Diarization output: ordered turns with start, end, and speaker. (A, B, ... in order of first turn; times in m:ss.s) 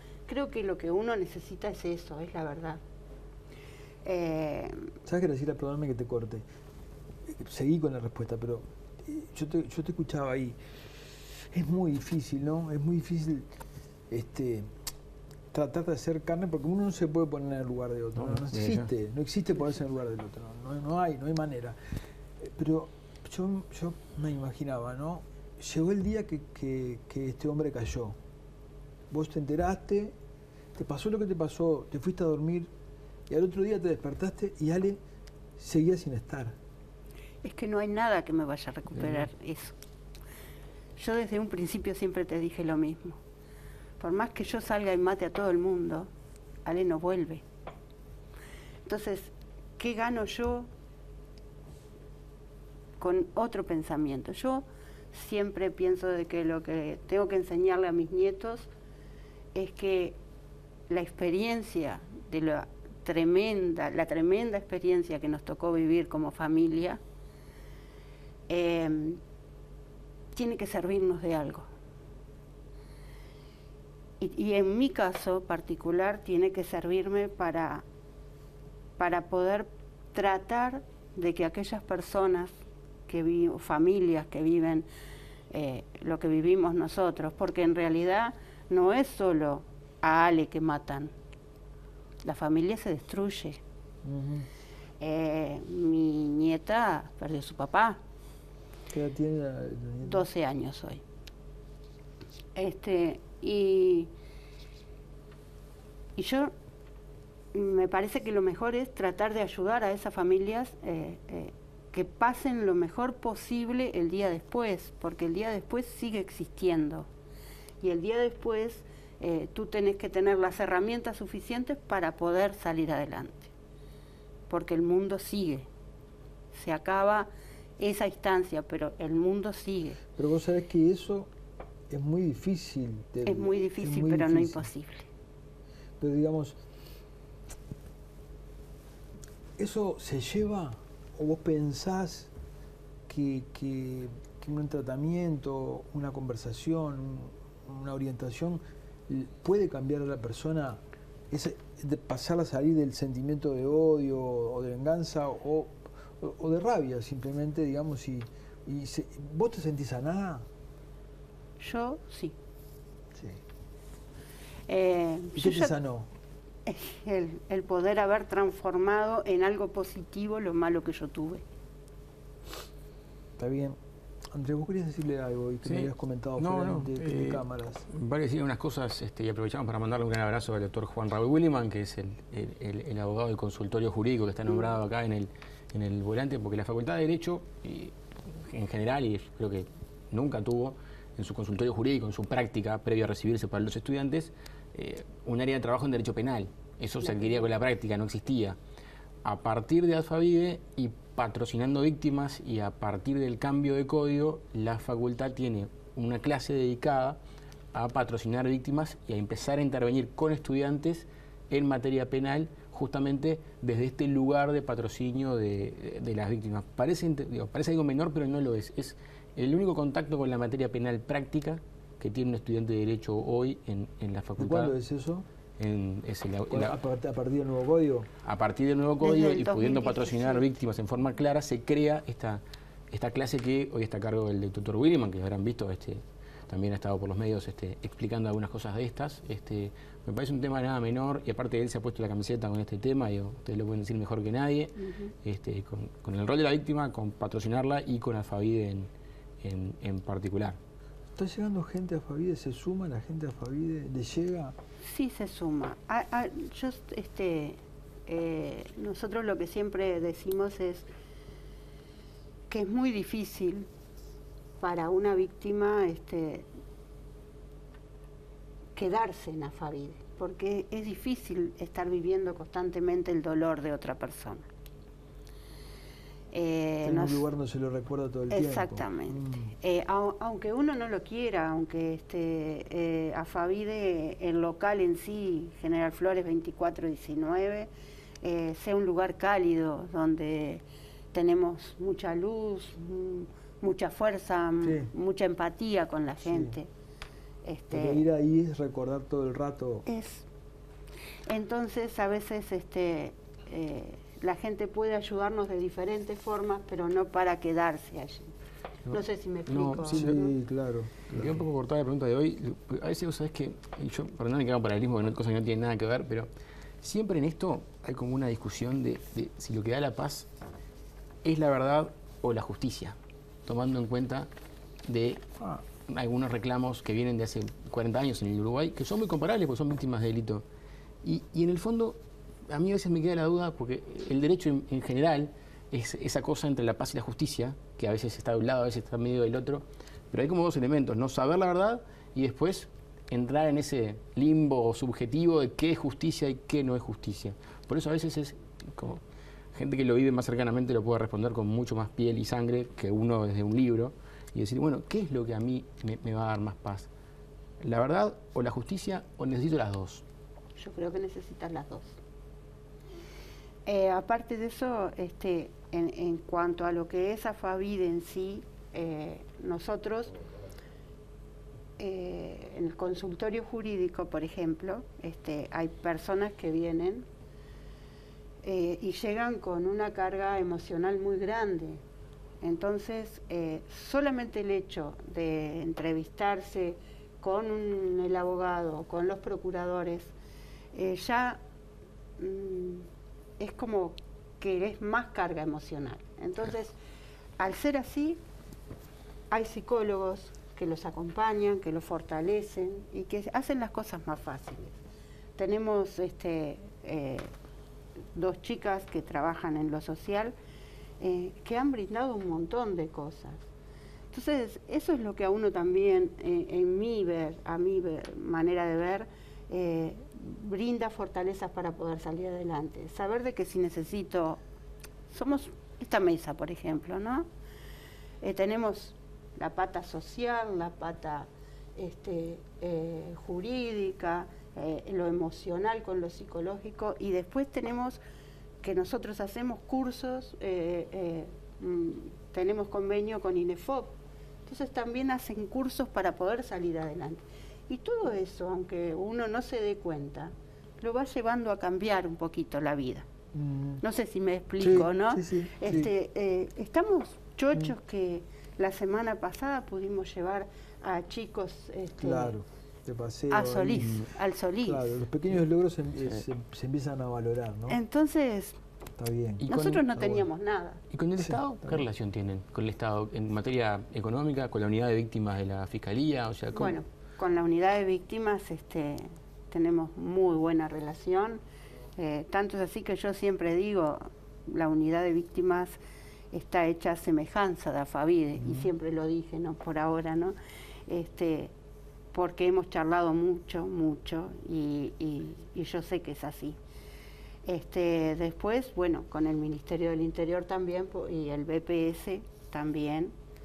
0:00.2-0:02.8 A
0:04.0-0:04.9 A
0:05.0-0:06.5 B
0:07.2-0:10.6 B
0:11.5-0:13.5 B
0:14.1-0:14.7 B
0:15.5-0:21.8 B
0:18.2-0:18.9 C
0:22.4-0:28.2 B
0:29.1-0:30.2 B
0:30.7-0:32.7 B
0:33.3-0:35.0 B
0:35.6-0:36.5 B
0:37.4-0:39.8 A
0:38.9-0:39.3 B
0:41.0-0:43.2 A
0:44.0-0:46.1 A
0:46.6-0:47.4 A
0:48.8-0:50.7 A
0:53.0-0:58.7 A
0:59.5-1:00.2 A
1:00.9-1:07.0 A
1:08.5-1:09.2 A
1:10.3-1:11.7 A
1:14.2-1:17.8 A
1:19.0-1:22.5 A
1:23.1-1:24.9 A
1:25.5-1:31.1 A
1:32.2-1:33.6 A
1:34.0-1:34.5 B
1:35.0-1:38.0 A
1:38.9-1:40.3 B
1:40.0-1:41.0 A
1:42.5-1:44.1 A
1:46.2-1:46.5 A
1:47.5-1:57.1 A
1:57.8-2:03.5 A
2:04.5-2:05.7 A
2:06.5-2:10.0 A
2:10.2-2:11.3 B
2:11.9-2:14.7 B
2:13.2-2:15.1 A
2:16.0-2:16.6 B
2:19.6-2:22.3 B
2:23.1-2:40.4 B
2:41.6-2:42.4 A
2:43.1-2:43.4 B
2:44.7-2:45.8 A
2:45.4-2:46.1 B
2:46.6-2:51.4 A
2:53.4-2:53.8 B
2:54.3-2:57.8 B
2:55.6-3:18.6 C
3:17.0-3:17.4 A
3:19.2-3:27.2 C
3:27.7-3:44.7 C
3:44.4-3:45.2 B
3:45.6-3:46.8 C
3:46.5-3:48.1 B
3:48.2-4:08.9 C
3:49.0-3:50.4 A
4:04.8-4:05.1 A
4:09.4-4:10.6 C
4:11.1-4:14.5 B
4:14.8-4:20.9 A
4:22.5-4:23.7 A
4:24.6-4:26.5 A
4:28.7-4:34.4 A
4:36.3-4:37.3 A
4:36.8-4:39.5 B
4:38.3-4:47.7 A
4:48.2-4:56.7 A
4:54.6-4:54.9 B
4:56.2-4:56.6 B
4:57.4-4:58.1 A
4:57.7-4:59.8 B
4:59.8-5:00.3 A
5:01.3-5:08.3 A
5:08.9-5:10.3 A
5:09.5-5:10.2 C
5:09.8-5:11.4 B
5:11.1-5:16.3 C
5:16.8-5:20.3 C
5:21.2-5:24.3 C
5:24.8-5:25.2 C
5:25.9-5:30.4 C
5:31.0-5:32.0 C
5:32.5-5:49.0 C
5:49.5-5:56.9 C
5:57.6-6:00.0 C
6:00.6-6:02.0 A
6:03.6-6:10.1 A
6:11.8-6:17.1 A
6:18.4-6:21.8 A
6:22.4-6:30.1 A
6:30.7-6:31.4 A
6:32.2-6:32.9 A
6:33.4-6:36.8 A
6:37.4-6:38.2 A
6:39.3-6:44.8 A
6:45.4-6:47.3 A
6:48.1-6:50.3 A
6:51.0-6:53.4 A
6:54.1-7:04.4 A
7:05.1-7:07.2 A
7:08.2-7:18.0 A
7:18.6-7:23.9 A
7:24.4-7:33.0 A
7:33.3-7:33.8 B
7:33.8-7:42.4 A
7:34.6-7:35.9 B
7:42.0-7:44.1 B
7:43.3-7:44.9 A
7:44.6-7:47.8 B
7:47.7-7:48.6 A
7:49.0-7:49.5 B
7:49.4-7:50.2 C
7:49.5-7:50.8 A
7:50.9-7:56.8 C
7:51.2-7:51.8 B
7:56.5-8:01.4 A
8:02.0-8:05.8 A
8:06.3-8:10.3 A
8:08.4-8:08.7 B
8:10.9-8:11.5 A
8:12.1-8:16.6 A
8:17.4-8:23.1 A